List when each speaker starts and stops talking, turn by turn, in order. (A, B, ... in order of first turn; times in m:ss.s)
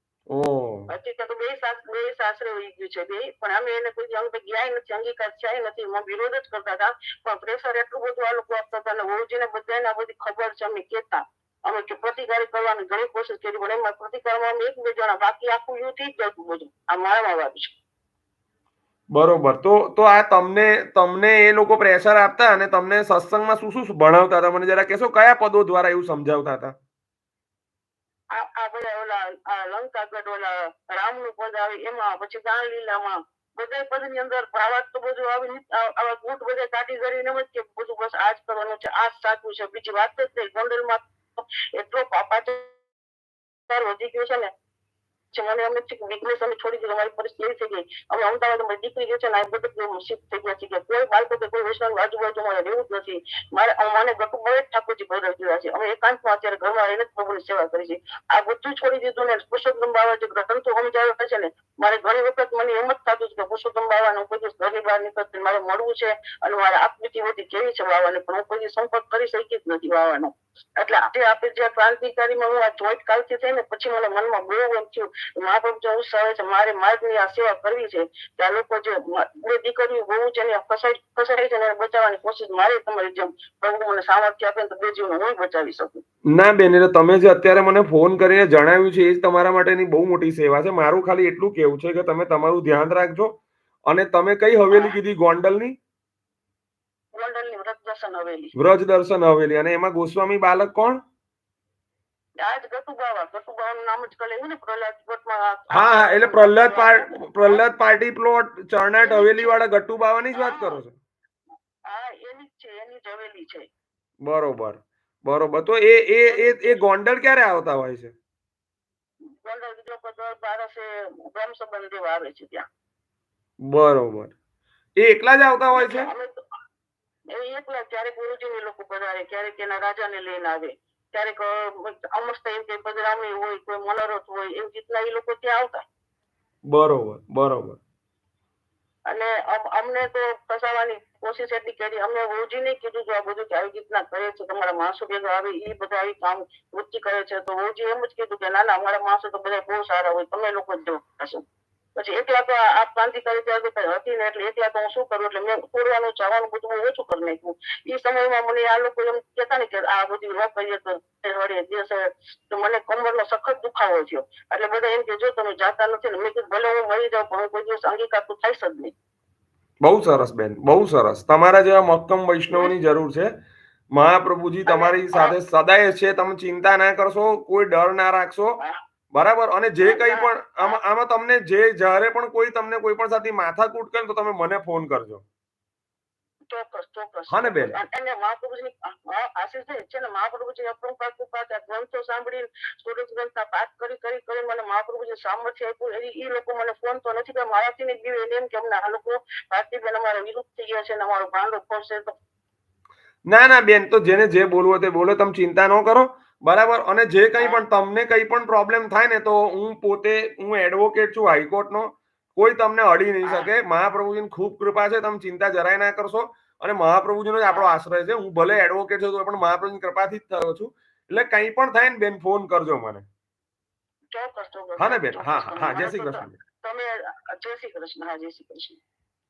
0:00.3-0:00.9 A
0:00.9-0:17.8 B
0:19.1-0:26.8 A
0:28.3-0:42.7 B
0:43.7-0:44.5 B
0:45.3-1:26.0 B
1:26.4-1:33.4 A
1:33.9-1:35.8 A
1:34.7-1:35.0 B
1:37.1-1:38.5 B
1:38.6-1:41.0 A
1:42.4-1:47.6 B
1:45.7-1:50.9 A
1:49.0-1:49.6 B
1:50.3-1:50.8 B
1:51.9-1:53.7 B
1:54.2-1:58.1 A
1:56.2-1:56.8 B
1:59.4-2:02.6 B
2:03.7-2:04.4 A
2:05.0-2:06.1 A
2:05.8-2:06.3 B
2:07.3-2:15.8 B
2:16.7-2:17.8 A
2:19.1-2:31.4 B
2:32.0-2:48.9 B
2:49.8-2:53.3 A
2:53.9-2:58.6 A
2:54.7-2:55.4 B
2:59.1-3:05.2 A
2:59.8-3:00.8 B
3:06.5-3:22.1 B
3:07.3-3:07.8 A
3:23.3-3:43.1 A
3:27.4-3:27.6 B
3:33.2-3:33.5 B
3:44.1-3:48.8 B
3:44.8-3:46.4 A